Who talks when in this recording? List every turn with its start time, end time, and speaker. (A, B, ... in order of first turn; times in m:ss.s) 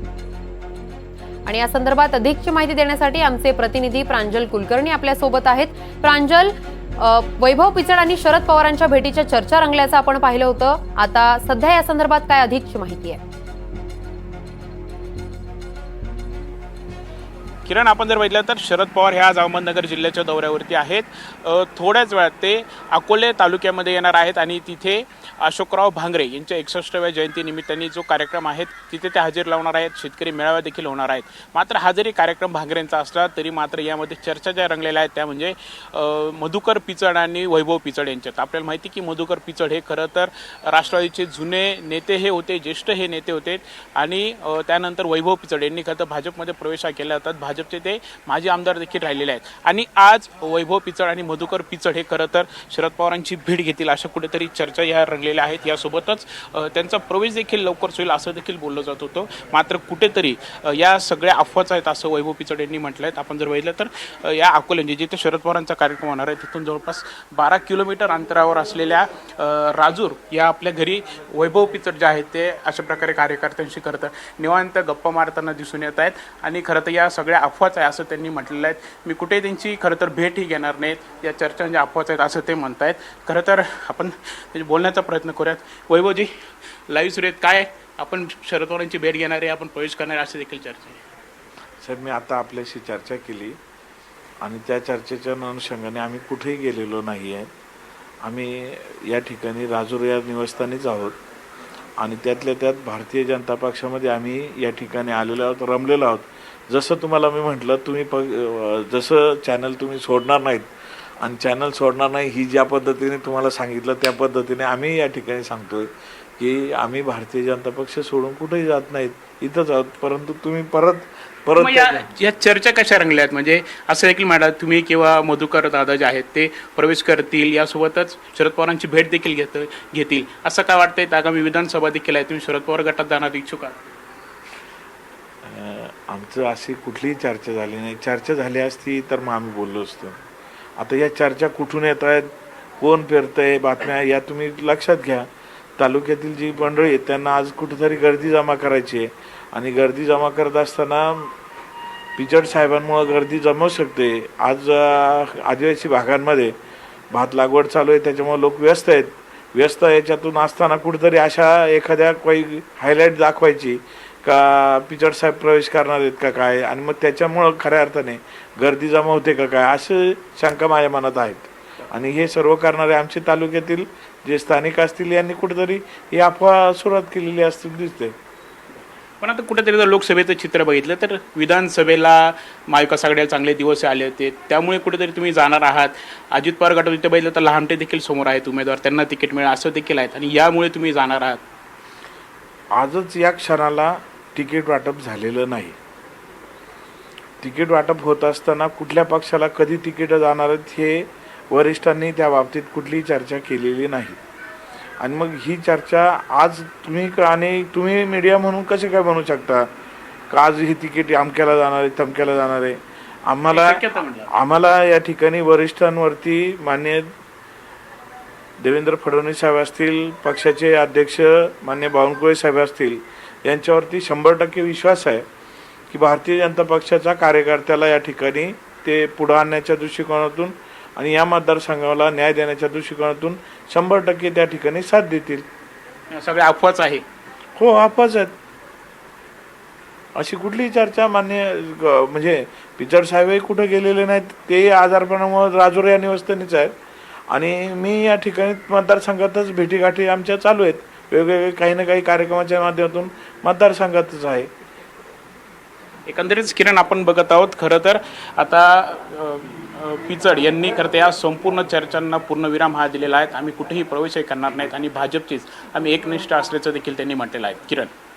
0:01.5-0:13.2 A
0:17.7-1:26.3 B
1:26.9-1:31.0 B
1:31.8-1:33.6 C
1:34.4-1:37.5 C
1:38.2-1:41.2 C
1:42.0-2:02.1 C
2:01.6-2:13.8 B
2:15.4-2:20.2 C
2:20.8-2:31.3 C
2:32.2-2:36.5 C
2:37.1-2:58.1 C
2:59.2-3:11.4 B
3:12.8-3:15.8 C
3:17.4-3:24.2 C
3:25.0-3:29.7 C
3:30.3-3:37.1 C
3:33.5-3:34.3 B
3:38.6-3:45.3 C
3:45.9-3:55.4 C
3:56.1-3:57.0 B
3:57.6-3:58.3 C
4:00.2-4:06.7 C
4:07.3-4:14.5 C
4:16.1-4:27.9 B